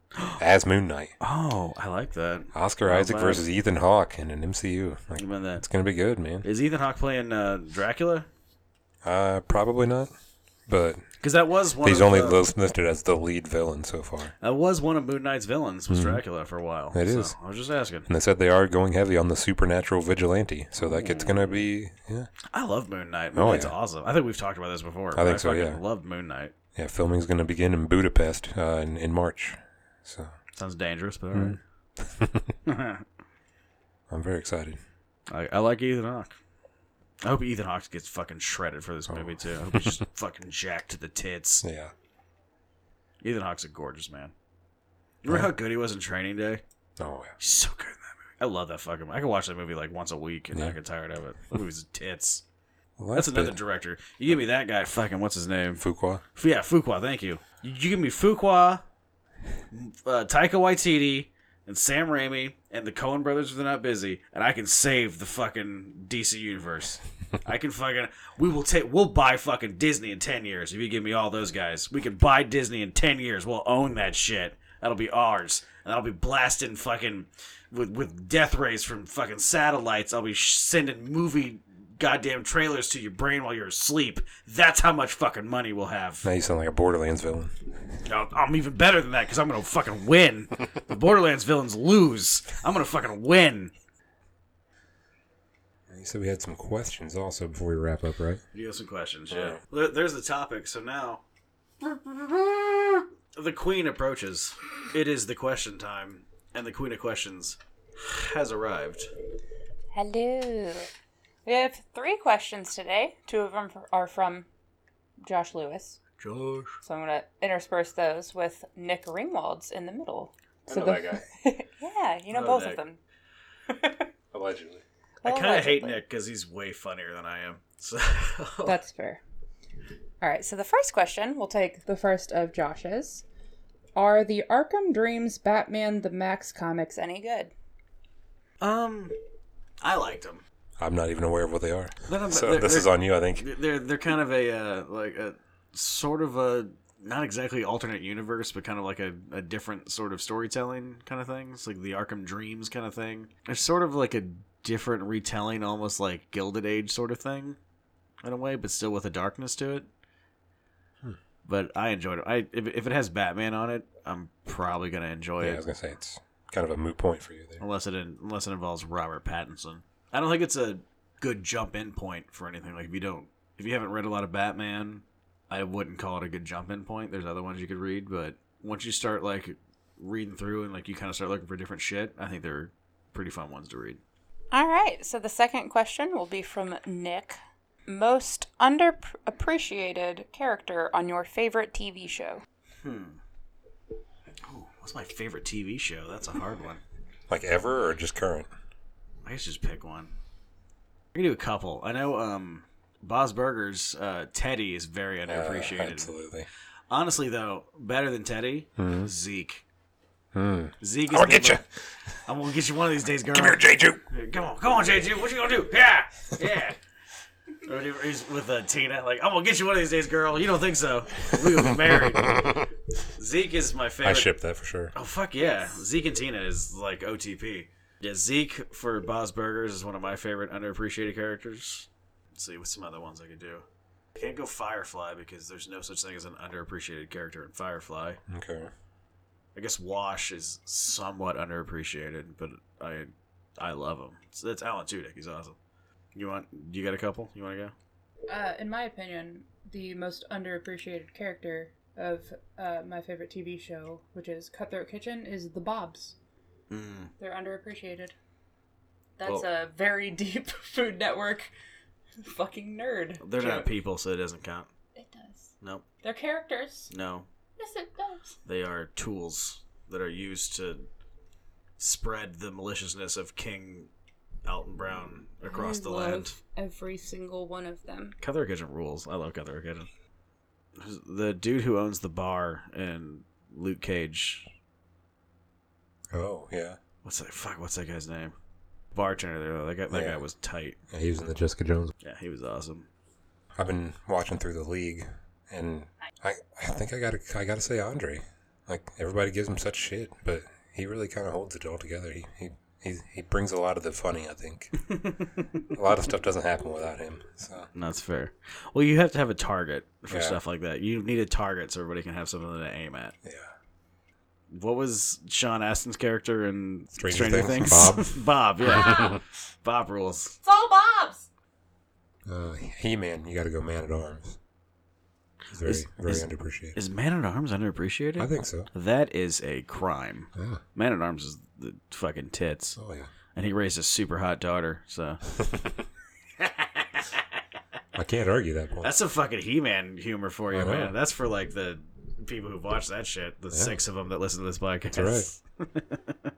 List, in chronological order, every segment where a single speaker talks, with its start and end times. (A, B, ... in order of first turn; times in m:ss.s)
0:00.4-0:01.1 A
0:01.2-0:03.4 B
0:02.5-0:06.4 A
0:05.2-0:05.6 B
0:06.4-0:08.3 B
0:09.0-0:10.1 A
0:10.7-0:11.0 A
0:11.2-0:12.4 B
0:11.8-0:14.3 A
0:14.4-0:18.1 B
0:15.9-0:16.2 A
0:16.9-0:17.3 A
0:18.1-0:22.3 A
0:20.8-0:21.6 B
0:22.5-0:26.5 B
0:23.3-0:23.7 A
0:25.1-0:25.8 A
0:26.7-0:30.3 A
0:30.5-0:31.6 B
0:31.3-0:32.5 A
0:32.6-0:33.0 B
0:34.1-0:34.8 A
0:35.3-0:36.3 B
0:37.2-0:41.6 B
0:39.1-0:40.0 A
0:41.6-0:41.9 A
0:43.2-0:44.3 B
0:45.2-0:46.6 B
0:47.0-0:47.3 A
0:47.4-0:52.4 B
0:53.0-0:53.6 A
0:53.1-0:55.8 B
0:55.8-0:56.2 A
0:56.3-0:58.8 B
0:59.7-1:26.3 B
1:26.2-1:27.7 A
1:28.0-1:33.7 B
1:35.9-1:38.4 A
1:38.5-1:41.2 B
1:39.3-1:39.6 A
1:41.8-1:49.1 B
1:49.9-1:50.9 C
1:51.4-1:54.5 C
1:55.2-1:56.0 C
1:56.2-1:56.8 B
1:56.8-2:03.0 C
2:00.7-2:01.2 A
2:02.3-2:02.8 B
2:03.7-2:04.1 C
2:04.3-2:04.8 A
2:05.2-2:06.0 C
2:05.2-2:08.8 B
2:08.6-2:09.2 C
2:10.2-2:13.2 C
2:14.0-2:17.5 C
2:18.6-2:19.1 B
2:19.8-2:20.4 B
2:20.8-2:23.5 A
2:22.1-2:37.6 B
2:38.2-2:39.9 B
2:41.4-2:45.6 B
2:45.4-2:47.6 A
2:47.6-3:04.0 B
3:04.5-3:12.4 C
3:12.8-3:13.2 B
3:14.5-3:16.8 B
3:17.3-3:18.5 A
3:19.2-3:20.1 B
3:21.1-3:26.1 B
3:25.3-3:26.5 A
3:26.9-3:29.6 B
3:28.8-3:29.1 A
3:30.3-3:31.7 A
3:30.8-3:31.6 B
3:32.2-3:36.8 B
3:33.3-3:34.0 A
3:37.6-3:42.6 B
3:41.4-3:42.6 A
3:43.1-3:44.3 B
3:44.0-3:44.9 A
3:44.9-3:53.6 B
3:54.2-3:58.2 B
3:58.3-3:58.7 A
3:59.5-4:05.6 B
4:06.1-4:07.7 B
4:08.3-4:16.2 C
4:16.7-4:17.1 B
4:17.2-4:18.1 C
4:19.2-4:21.5 C
4:22.2-4:23.7 C
4:23.2-4:24.7 B
4:25.0-4:26.9 C
4:26.9-4:27.3 B
4:27.6-4:28.4 C
4:28.4-4:30.8 B
4:31.8-4:33.9 B
4:34.4-4:36.4 B
4:35.4-4:38.2 C
4:38.2-4:39.9 B
4:40.8-4:44.5 B
4:46.1-4:46.8 A
4:47.0-4:48.3 B
4:48.9-4:50.8 B
4:49.9-4:50.2 A
4:50.9-4:51.9 A
4:52.0-4:52.9 B
4:53.6-5:04.7 A
5:04.9-5:05.5 B
5:05.7-5:07.7 A
5:07.7-5:13.1 B
5:10.1-5:10.4 A
5:13.2-5:13.5 A
5:14.5-5:20.4 B
5:16.9-5:18.2 A
5:18.7-5:19.2 C
5:20.4-5:21.2 C
5:22.2-5:24.4 A
5:25.5-5:26.8 A
5:25.6-5:32.8 B
5:28.2-5:28.7 A
5:30.3-5:30.6 A
5:32.8-5:33.1 A
5:33.3-5:35.2 B
5:35.4-5:35.7 A
5:36.4-5:37.2 B
5:37.9-5:38.9 A
5:38.8-5:46.2 B
5:40.5-5:40.9 A
5:43.5-5:43.8 A
5:44.9-5:45.3 A